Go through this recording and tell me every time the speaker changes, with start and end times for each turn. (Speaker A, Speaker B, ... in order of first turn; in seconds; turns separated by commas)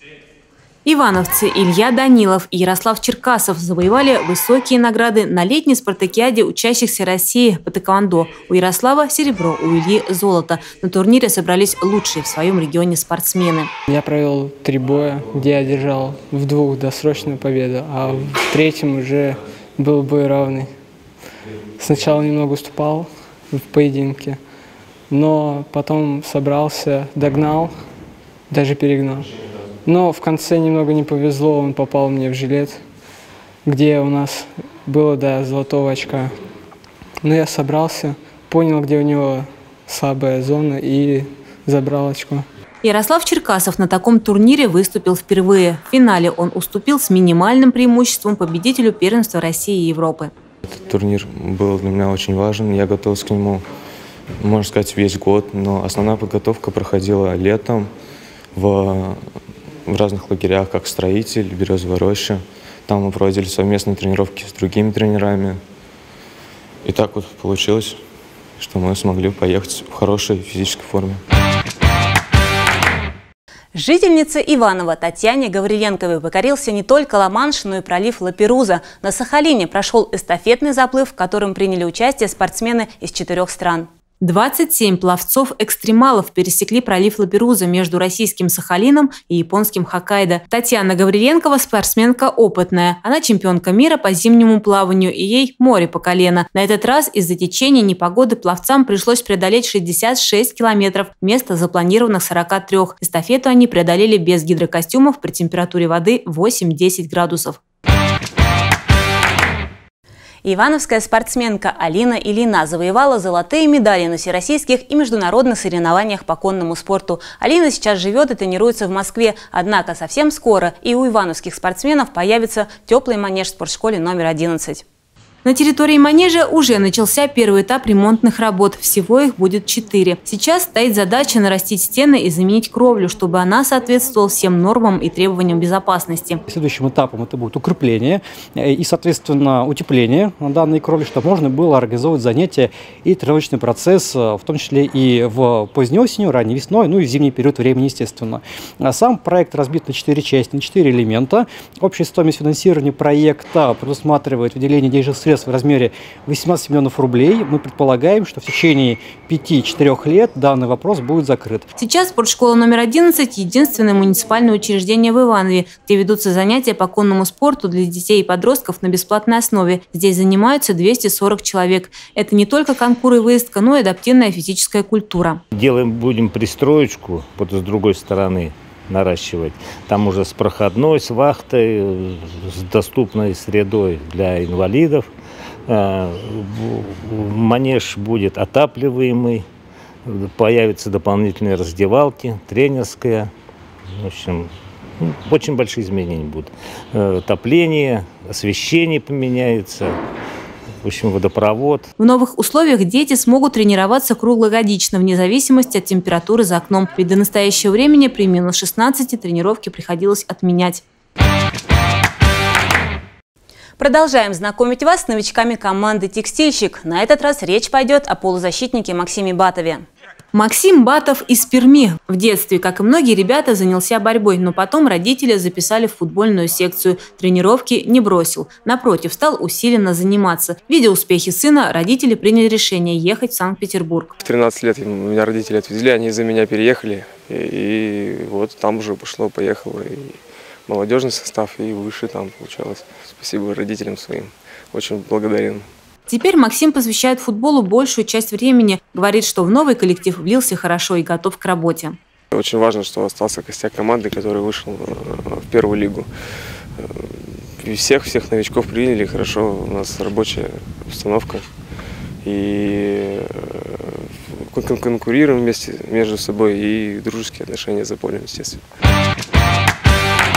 Speaker A: 0.8-13.7, Speaker B: 13.9-20.7, Speaker B: 21.8-24.4, Speaker B: 25.1-27.7, Speaker B: 28.5-29.3, Speaker B: 29.8-32.8, Speaker B: 33.6-36.3, Speaker B: 37.2-42.5, Speaker A: 42.8-50.3, Speaker C: 50.7-53.6, Speaker C: 54.4-57.9, Speaker C: 58.5-59.2, Speaker C: 59.9-65.6, Speaker C: 66.8-68.0, Speaker C: 68.6-71.2, Speaker A: 73.8-107.6, Speaker A: 110.4-124.8, Speaker A: 125.4-136.4, Speaker D: 136.5-161.7, Speaker A: 161.8-175.4, Speaker E: 175.5-185.1, Speaker E: 185.7-189.4, Speaker E: 190.1-193.3, Speaker E: 194.0-199.9, Speaker E: 200.8-201.9, Speaker A: 202.0-210.8, Speaker A: 213.8-234.2, Speaker F: 234.2-245.7, Speaker A: 246.1-252.0, Speaker F: 252.3-256.1, Speaker F: 256.8-261.5, Speaker F: 262.2-268.6